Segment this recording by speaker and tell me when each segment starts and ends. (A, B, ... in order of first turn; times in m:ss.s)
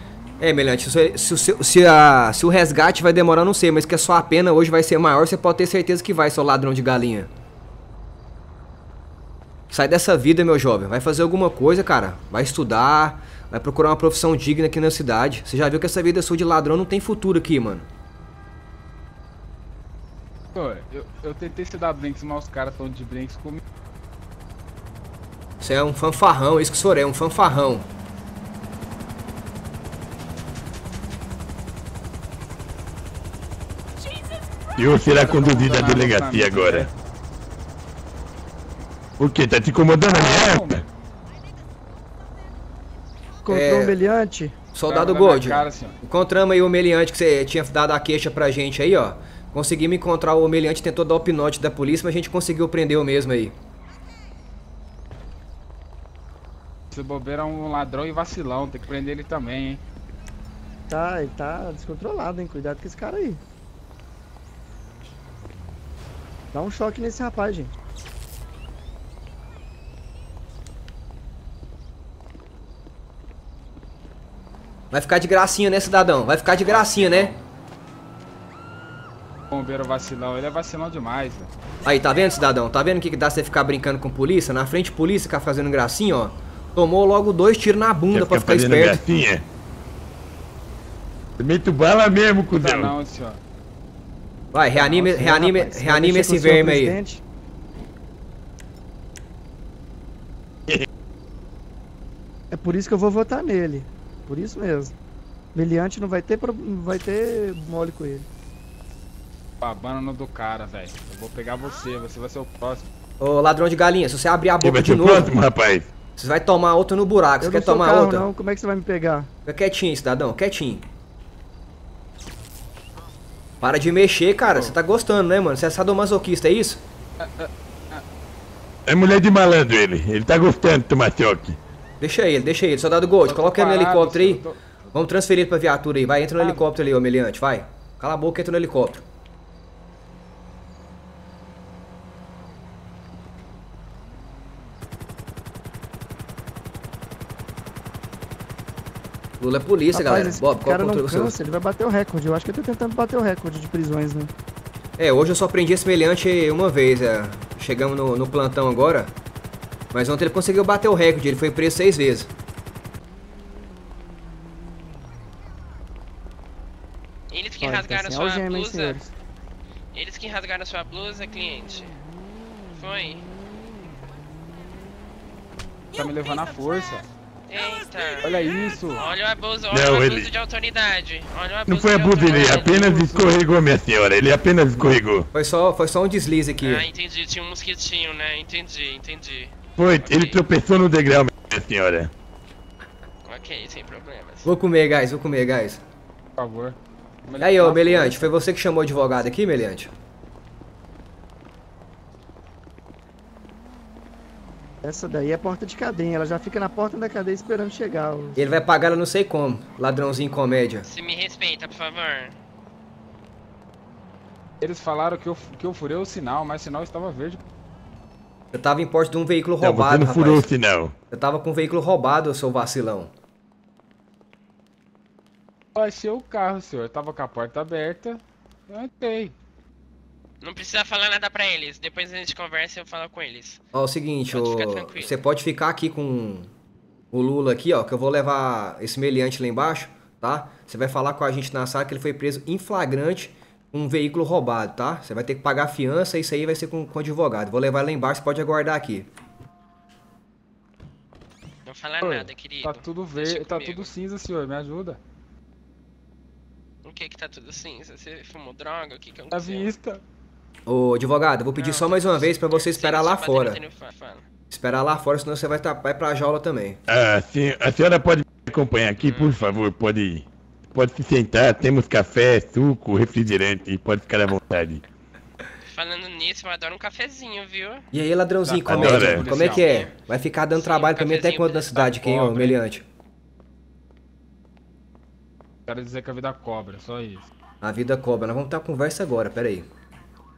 0:00.4-0:07.3 A
0:09.7-0:17.8 A
0:20.5-0:23.6 B
0:25.6-0:27.9 A
0:34.7-0:36.9 C
0:35.1-0:36.9 B
0:39.2-0:40.8 C
0:40.1-0:40.8 B
0:43.4-0:44.5 D
0:43.5-0:43.9 A
0:44.7-0:53.5 A
0:44.9-0:46.0 B
0:56.9-0:59.8 B
1:00.9-1:03.4 D
1:06.5-1:07.7 D
1:14.9-1:17.3 A
1:16.7-1:17.3 B
1:19.5-1:21.5 B
1:21.8-1:29.0 A
1:28.1-1:29.4 C
1:31.4-1:32.9 C
1:32.5-1:33.4 B
1:34.5-1:37.0 A
1:34.7-1:35.3 B
1:35.0-1:37.2 D
1:42.5-1:44.9 D
1:45.5-1:48.3 D
1:49.6-1:52.9 B
1:53.2-1:55.3 A
1:54.6-1:55.9 C
1:56.2-1:58.3 A
1:57.4-1:59.3 D
1:59.4-2:00.8 A
2:03.6-2:06.8 A
2:07.2-2:08.0 B
2:08.9-2:11.6 C
2:12.0-2:19.0 A
2:13.2-2:14.7 B
2:16.4-2:16.6 B
2:29.4-2:31.4 A
2:29.9-2:34.3 D
2:35.0-2:39.1 A
2:39.9-2:42.3 A
2:47.3-2:49.0 E
2:47.6-2:49.1 D
2:49.9-2:51.9 E
2:52.7-2:53.2 E
2:55.9-2:57.1 B
2:57.5-3:02.8 E
2:58.2-2:59.1 B
2:59.7-3:00.3 C
3:01.7-3:05.3 C
3:02.4-3:03.4 B
3:05.3-3:06.9 A
3:06.6-3:10.4 E
3:09.8-3:12.1 C
3:13.2-3:14.5 E
3:14.4-3:15.8 A
3:16.4-3:18.3 B
3:17.4-3:19.9 A
3:24.8-3:28.4 D
3:28.4-3:30.9 A
3:30.8-3:32.3 E
3:34.6-3:37.4 B
3:38.5-3:40.5 A
3:39.6-3:41.0 C
3:41.1-3:43.1 A
3:45.8-3:49.3 B
3:50.4-3:53.6 E
3:53.7-3:56.5 A
3:54.3-3:55.2 E
3:57.1-4:09.1 A
4:11.6-4:13.9 E
4:12.0-4:15.0 B
4:16.8-4:19.7 E
4:19.3-4:20.0 B
4:20.7-4:23.6 A
4:21.6-4:24.2 E
4:24.5-4:26.8 A
4:26.9-4:34.8 C
4:29.0-4:29.4 E
4:35.7-4:37.8 E
4:37.9-4:42.8 A
4:38.4-4:39.8 B
4:38.6-4:39.3 C
4:39.4-4:39.9 E
4:40.5-4:42.1 E
4:42.0-4:42.6 B
4:45.7-4:47.3 B
4:47.6-4:49.7 A